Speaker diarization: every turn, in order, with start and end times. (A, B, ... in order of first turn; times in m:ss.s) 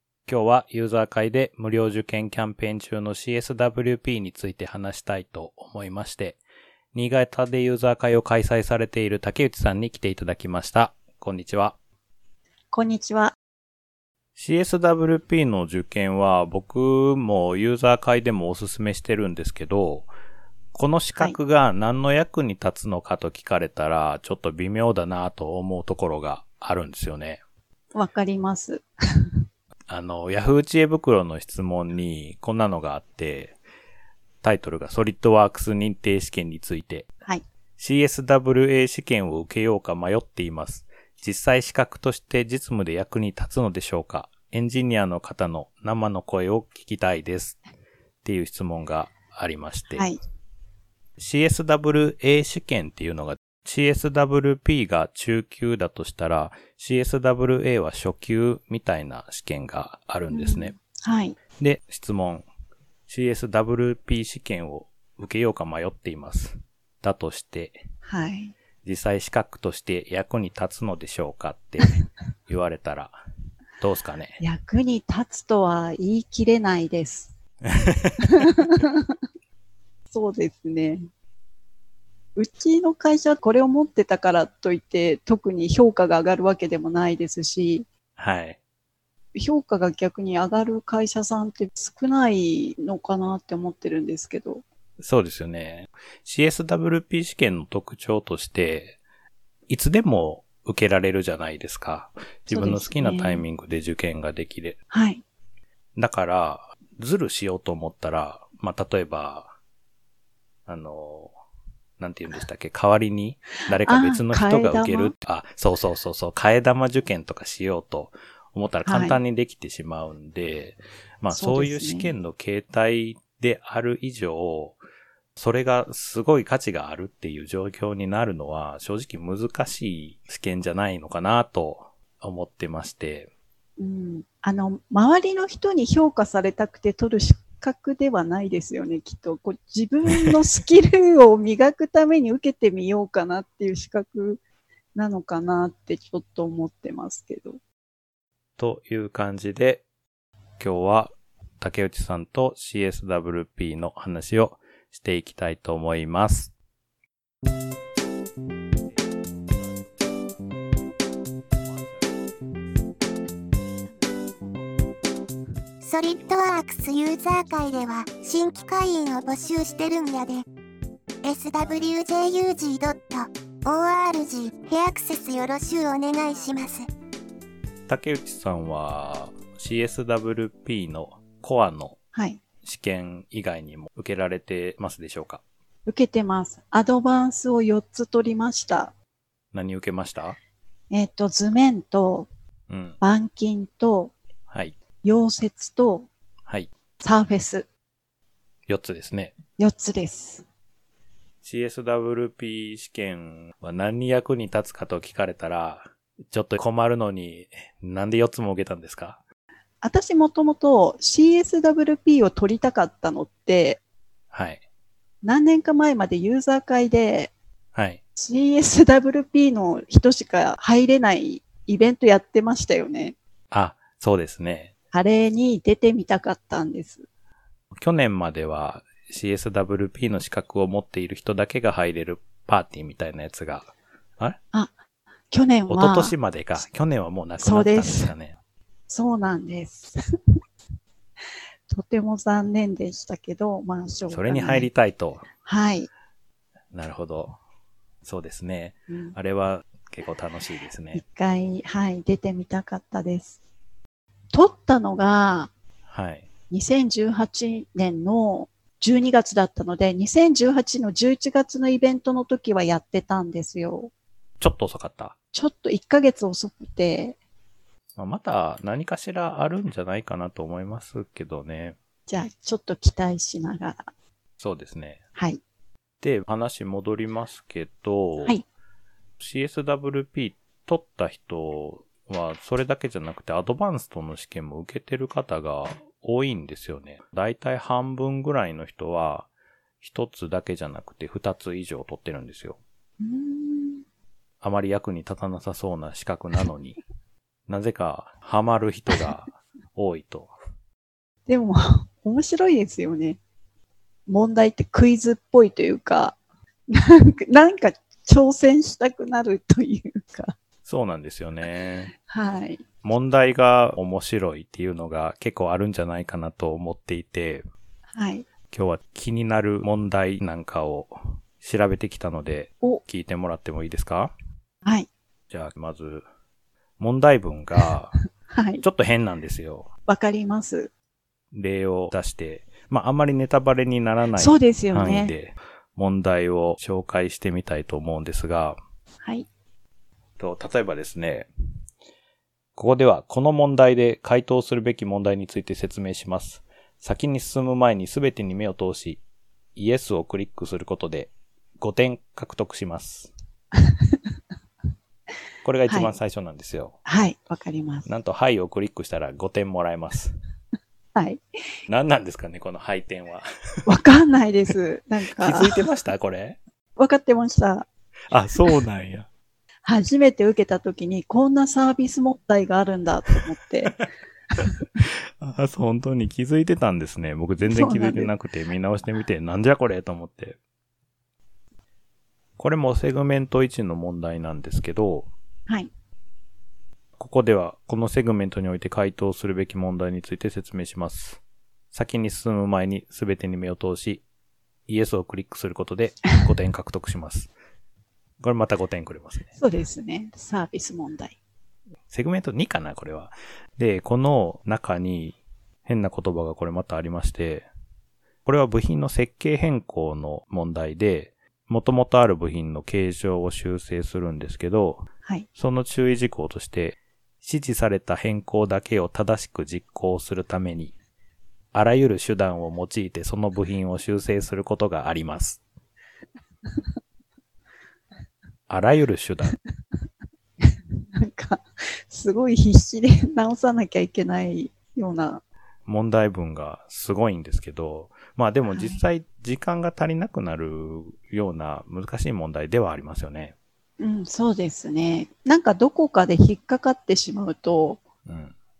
0:00.2-0:06.4 A
0:06.9-0:11.8 A
0:12.7-0:13.3 B
0:14.4-0:20.1 A
0:20.7-0:27.4 A
0:27.9-0:28.9 B
0:29.9-0:33.6 A
0:34.4-0:37.1 A
0:37.8-0:47.6 A
0:48.2-0:50.1 A
0:49.9-0:50.2 B
0:51.2-1:00.7 A
1:00.3-1:01.4 B
1:01.6-1:02.4 A
1:03.1-1:07.8 A
1:08.0-1:08.5 B
1:08.8-1:13.2 A
1:13.8-1:14.4 A
1:14.4-1:17.3 B
1:17.8-1:18.5 A
1:18.2-1:19.1 B
1:20.1-1:21.0 B
1:22.4-1:27.9 B
1:28.2-1:28.6 A
1:29.3-1:34.6 B
1:35.0-1:39.0 A
1:39.7-1:44.8 A
1:42.5-1:43.4 B
1:44.9-1:45.2 B
1:46.0-1:49.5 A
1:50.7-1:51.3 A
1:52.0-2:04.8 A
1:53.8-1:55.1 B
1:58.8-1:59.2 B
2:01.3-2:02.1 B
2:05.4-2:13.3 A
2:13.8-2:24.4 B
2:24.9-2:27.6 B
2:28.6-2:29.8 A
2:30.6-2:36.5 A
2:45.8-2:50.4 C
2:51.2-2:56.9 C
2:57.9-3:02.0 A
3:02.1-3:02.4 B
3:02.6-3:05.4 A
3:05.8-3:08.9 B
3:09.5-3:10.4 A
3:10.9-3:12.3 B
3:12.7-3:13.0 A
3:13.0-3:14.1 B
3:14.5-3:14.7 A
3:15.0-3:16.1 B
3:17.0-3:17.6 B
3:18.7-3:19.3 A
3:19.6-3:20.4 B
3:21.4-3:29.2 A
3:29.8-3:33.8 B
3:34.3-3:34.6 A
3:35.2-3:37.3 B
3:37.7-3:38.0 A
3:38.2-3:43.2 B
3:43.5-3:44.7 A
3:44.9-3:47.0 B
3:47.8-3:54.4 A
3:55.3-3:56.1 B
3:55.7-3:58.4 A
3:57.4-3:58.1 B
3:58.9-4:00.0 B
4:01.7-4:04.7 B
4:04.1-4:05.3 A
4:05.4-4:05.9 B
4:06.7-4:07.4 A
4:08.0-4:11.0 A
4:08.9-4:09.2 B
4:10.9-4:13.4 B
4:14.3-4:15.5 B
4:15.9-4:16.3 A
4:16.5-4:23.9 B
4:24.4-4:25.1 A
4:25.3-4:27.2 B
4:28.0-4:31.8 A
4:32.1-4:33.9 B
4:34.4-4:35.0 A
4:35.2-4:35.4 B
4:36.0-4:38.4 A
4:39.2-4:49.3 A
4:49.8-4:52.6 A
4:53.0-4:53.8 B
4:54.4-4:56.8 A
4:57.5-5:00.3 A
5:01.3-5:03.2 B
5:04.1-5:06.2 B
5:06.7-5:10.3 B
5:10.6-5:11.9 A
5:12.1-5:12.6 B
5:12.8-5:17.4 A
5:17.9-5:18.2 B
5:18.5-5:24.1 A
5:24.6-5:24.9 B
5:25.3-5:26.0 A
5:26.8-5:27.9 A
5:28.3-5:28.6 B
5:28.6-5:29.7 A
5:29.9-5:30.7 B
5:31.3-5:38.6 A
5:34.2-5:35.1 B
5:39.0-5:39.3 B
5:40.2-5:41.3 A
5:42.5-5:49.0 A
5:49.5-5:53.1 A
5:53.6-5:54.0 B
5:55.4-5:56.8 A
5:55.7-5:55.9 B
5:56.8-5:57.8 B
5:57.8-6:00.1 A
6:00.9-6:01.2 B
6:01.7-6:03.3 A
6:03.6-6:05.5 B
6:05.2-6:06.4 A
6:06.8-6:07.7 B
6:08.1-6:09.1 A
6:09.6-6:13.8 B
6:15.2-6:20.4 A
6:17.4-6:18.1 B
6:22.4-6:25.1 A
6:27.0-6:31.2 A
6:31.7-6:34.0 A
6:34.7-6:37.3 A
6:38.2-6:39.3 A
6:39.4-6:41.2 B
6:41.9-6:47.5 A
6:48.2-7:00.7 A
7:01.5-7:05.4 A
7:08.5-7:09.4 A
7:10.4-7:15.2 B
7:15.6-7:23.3 A
7:18.5-7:18.8 B
7:23.8-7:27.8 B
7:28.0-7:28.3 A